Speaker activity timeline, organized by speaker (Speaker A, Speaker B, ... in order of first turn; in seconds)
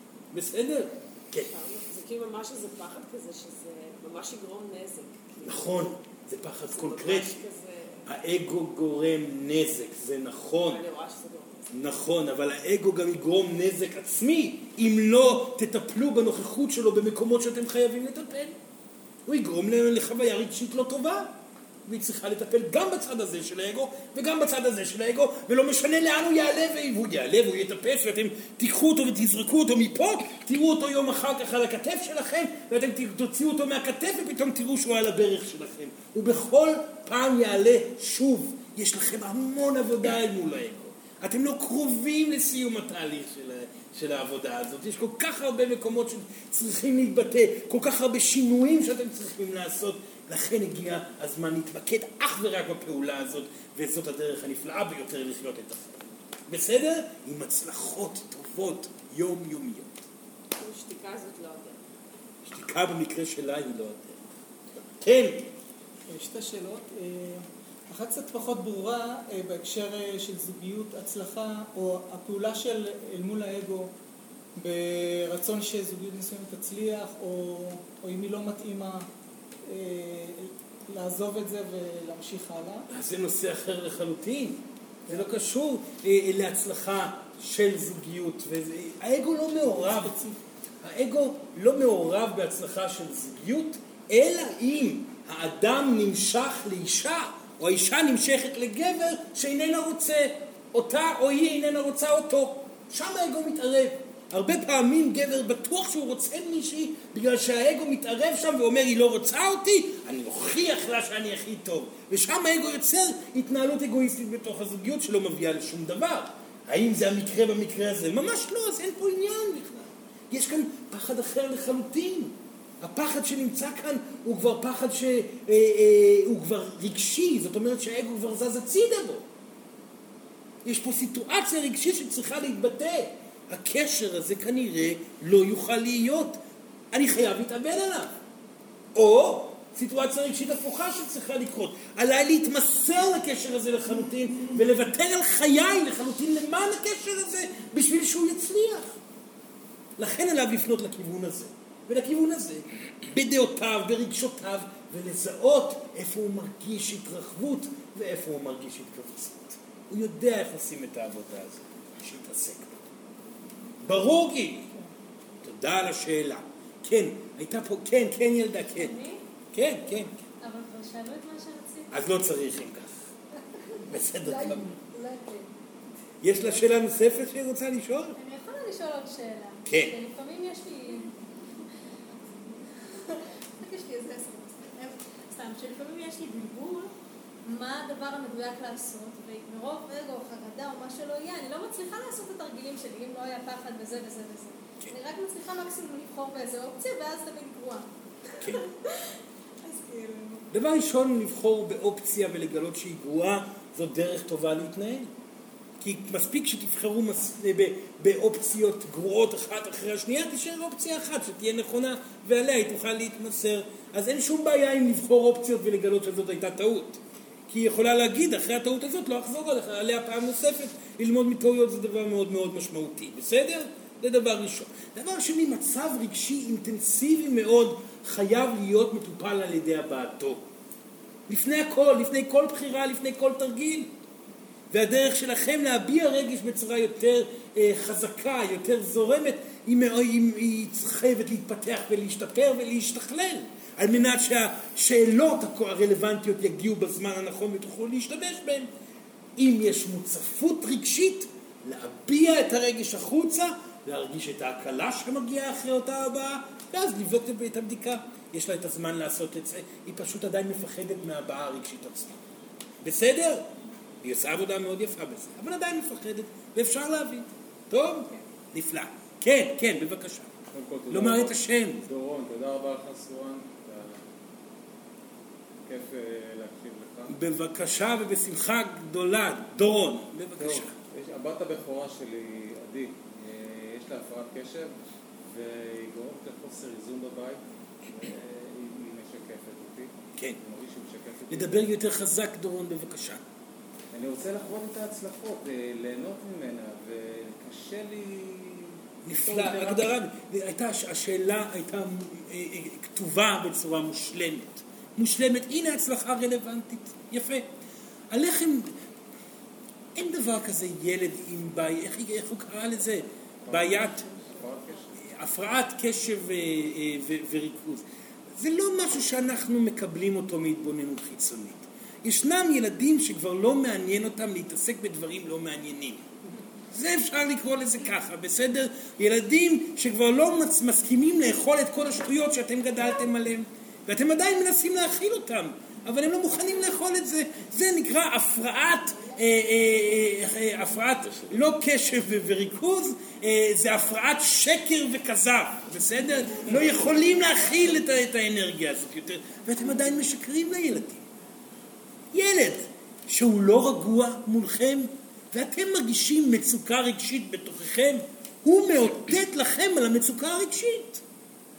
Speaker A: 0.3-1.5, 5.4-7.4, 8.1-10.8, 11.7-18.6, 19.3-21.3, 21.9-59.9, 62.5-64.2, 65.0-65.5, 82.9-90.2, 90.8-129.2, 130.6-136.4, 136.9-138.1, 138.9-148.9, 150.0-162.8, 163.8-164.7, 165.4-168.9, 169.5-170.1, 171.9-172.9, 173.9-174.7, 176.2-178.2, 179.7-179.9, 198.4-198.6, 200.5-205.1, 205.8-230.4, 231.3-233.9, 234.7-248.7, 249.4-262.2, 262.8-263.5, 264.0-270.3, 270.9-271.8, 277.1-280.8, 291.3-293.2, 299.0-307.5, 308.1-308.7, 310.0-314.0, 315.1-317.8, 318.4-326.1, 326.7-351.0, 352.1-361.0
Speaker B: 1.4-5.6, 6.7-8.0, 10.6-11.7, 60.5-61.8
Speaker C: 66.1-73.9, 74.6-79.1, 79.7-82.9
Speaker D: 168.8-169.2, 170.4-172.0, 174.3-175.5, 178.2-181.2, 182.9-186.9, 187.5-197.9, 198.4-199.0, 199.6-200.4
Speaker E: 270.5-274.0, 275.6-277.2, 280.4-291.7, 293.9-299.9, 313.4-315.0